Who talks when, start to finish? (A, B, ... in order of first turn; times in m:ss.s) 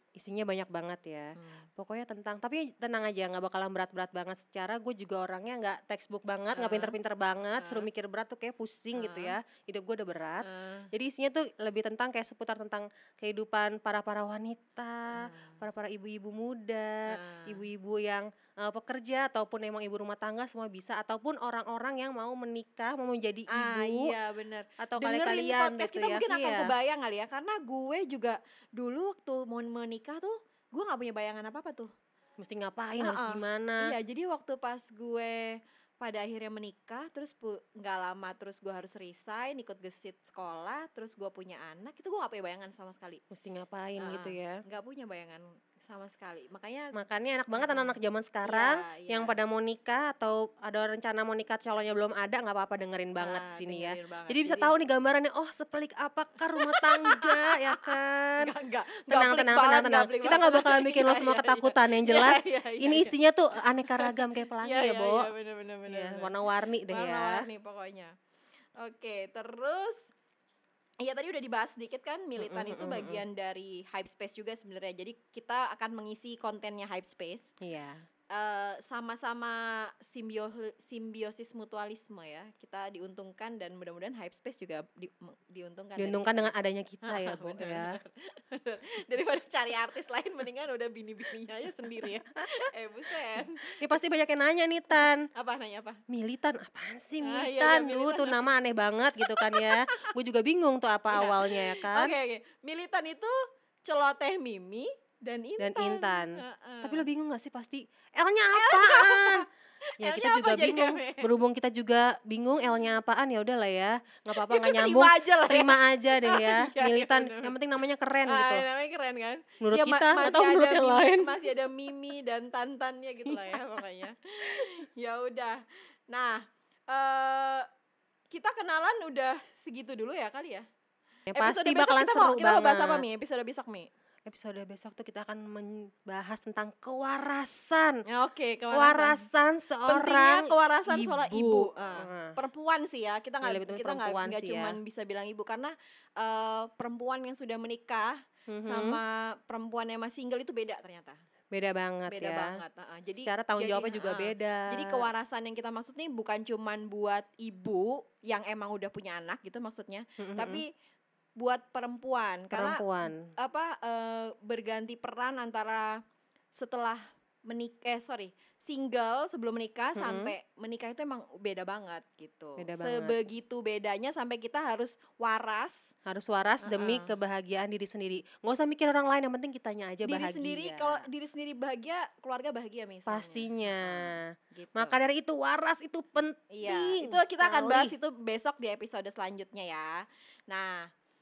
0:00.2-0:24.1 A
0:01.4-0:01.7 B
0:06.5-0:06.9 B
0:07.6-0:07.9 B
0:08.9-0:09.4 B
0:10.4-0:10.9 B
0:15.1-0:15.6 B
0:17.1-0:17.6 B
0:23.5-0:31.9 B
0:24.8-0:26.7 A
0:32.4-0:33.9 A
0:33.0-0:43.2 B
0:43.3-0:44.6 A
0:44.0-0:46.9 B
0:46.9-0:58.5 A
0:47.5-0:49.4 B
0:53.2-0:54.8 B
0:56.6-1:03.1 B
0:59.1-1:05.3 A
1:03.9-1:06.4 B
1:05.9-1:07.4 A
1:06.9-1:08.1 B
1:08.8-1:10.1 B
1:11.0-1:17.5 B
1:12.4-1:13.2 A
1:17.6-1:18.0 A
1:18.3-1:26.5 B
1:26.0-1:27.9 A
1:27.0-1:34.1 B
1:33.6-1:35.3 A
1:35.3-1:36.0 B
1:36.1-1:42.1 A
1:37.2-1:38.4 B
1:39.3-1:40.0 B
1:41.1-1:43.3 B
1:43.8-1:47.0 B
1:45.6-1:49.4 A
1:48.5-1:49.5 B
1:50.0-1:51.3 B
1:50.0-1:58.6 A
1:54.3-1:57.5 B
1:58.2-2:07.7 B
1:59.6-2:01.4 A
2:03.2-2:03.8 A
2:08.3-2:10.6 B
2:11.3-2:13.0 A
2:11.3-2:13.9 B
2:14.2-2:18.0 A
2:18.1-2:19.3 B
2:18.7-2:22.3 A
2:19.9-2:28.1 B
2:23.4-2:24.8 A
2:28.5-2:29.0 A
2:28.6-2:31.2 B
2:31.5-2:32.6 A
2:32.1-2:40.7 B
2:33.2-2:35.1 A
2:40.2-2:40.6 A
2:41.4-2:46.0 B
2:42.5-2:43.2 A
2:46.5-2:55.9 B
2:50.0-2:50.3 A
2:52.6-2:53.2 A
2:56.0-3:01.0 A
2:56.6-2:57.1 B
3:00.0-3:05.0 B
3:03.1-3:07.9 A
3:06.5-3:10.9 B